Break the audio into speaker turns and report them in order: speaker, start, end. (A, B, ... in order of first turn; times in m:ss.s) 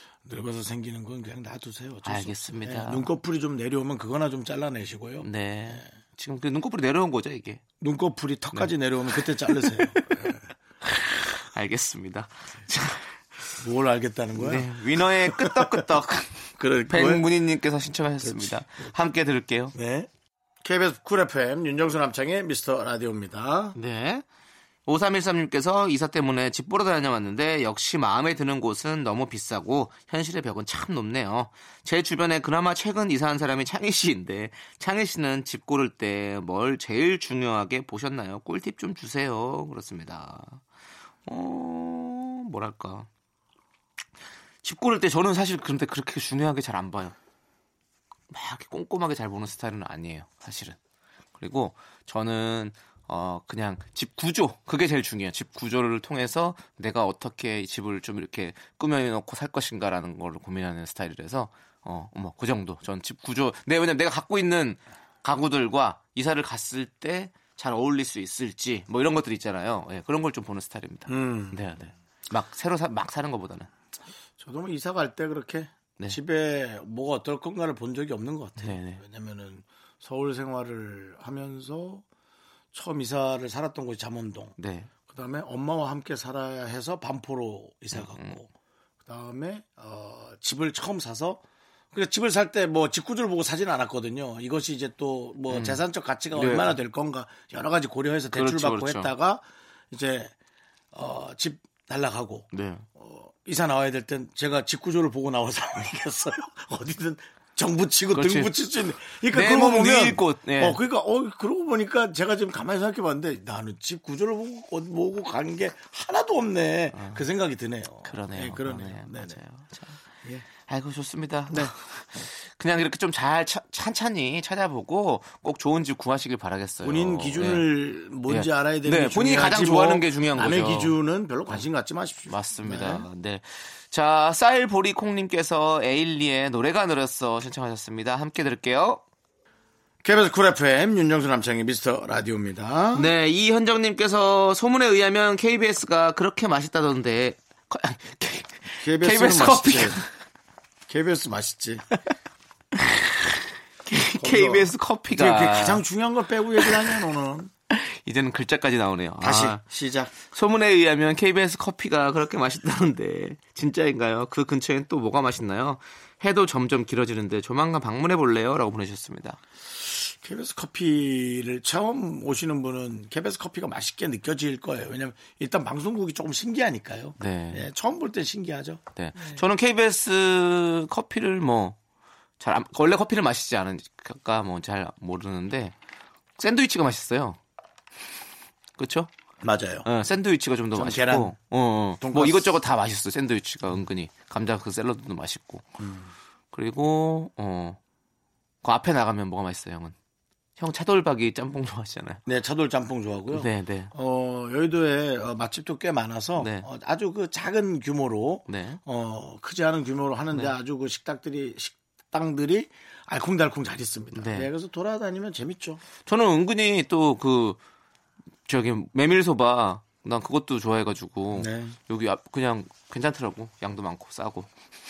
0:00.2-0:05.8 A
0:02.0-0:03.1 B
0:05.2-0:07.6 B
0:07.8-0:10.4 A
0:08.5-0:10.0 B
0:10.8-0:13.1 B
0:13.6-0:15.9 A
0:14.4-0:16.3 B
0:16.6-0:17.3 A
0:16.9-0:19.7 B
0:18.2-0:18.6 A
0:19.7-0:20.1 A
0:20.6-0:23.8 A
0:23.7-0:24.2 B
0:24.8-0:40.6 B
0:41.2-0:43.1 B
0:44.6-0:47.1 B
0:48.3-0:50.8 B
0:51.4-1:13.7 B
1:11.1-1:11.7 A
1:14.4-1:22.0 A
1:18.6-1:19.0 B
1:22.7-1:24.5 A
1:24.6-1:24.9 B
1:25.1-1:28.5 A
1:27.9-1:28.3 B
1:29.0-1:40.3 A
1:35.5-1:35.8 B
1:36.3-1:36.7 B
1:38.3-1:39.1 B
1:40.9-1:59.4 A
1:42.5-1:42.8 B
1:48.1-1:48.5 B
1:49.3-1:50.8 B
1:56.9-1:57.2 B
1:58.0-2:00.0 B
2:00.6-2:07.7 B
2:06.8-2:13.0 A
2:08.3-2:11.0 B
2:12.3-2:19.0 B
2:20.0-2:23.1 A
2:22.9-2:30.1 B
2:28.8-2:30.0 A
2:30.9-2:31.8 A
2:32.8-2:33.3 B
2:33.8-2:35.8 B
2:34.1-2:37.5 A
2:37.7-2:39.6 B
2:39.2-2:40.1 A
2:40.2-2:49.4 B
2:49.8-2:59.4 A
2:57.2-2:57.6 B
2:59.0-3:01.8 B
3:02.4-3:05.7 B
3:06.4-3:07.4 B
3:08.8-3:09.1 B
3:09.4-3:09.9 A
3:09.8-3:15.7 B
3:10.7-3:11.3 A
3:12.0-3:12.5 A
3:15.8-3:16.1 A
3:16.5-3:17.8 B
3:18.6-3:19.9 B
3:20.6-3:22.2 B
3:22.2-3:35.8 A
3:23.3-3:23.9 B
3:26.4-3:26.7 B
3:28.5-3:28.8 B
3:34.1-3:34.5 B
3:36.0-3:37.6 B
3:38.5-3:44.5 B
3:41.3-3:41.8 A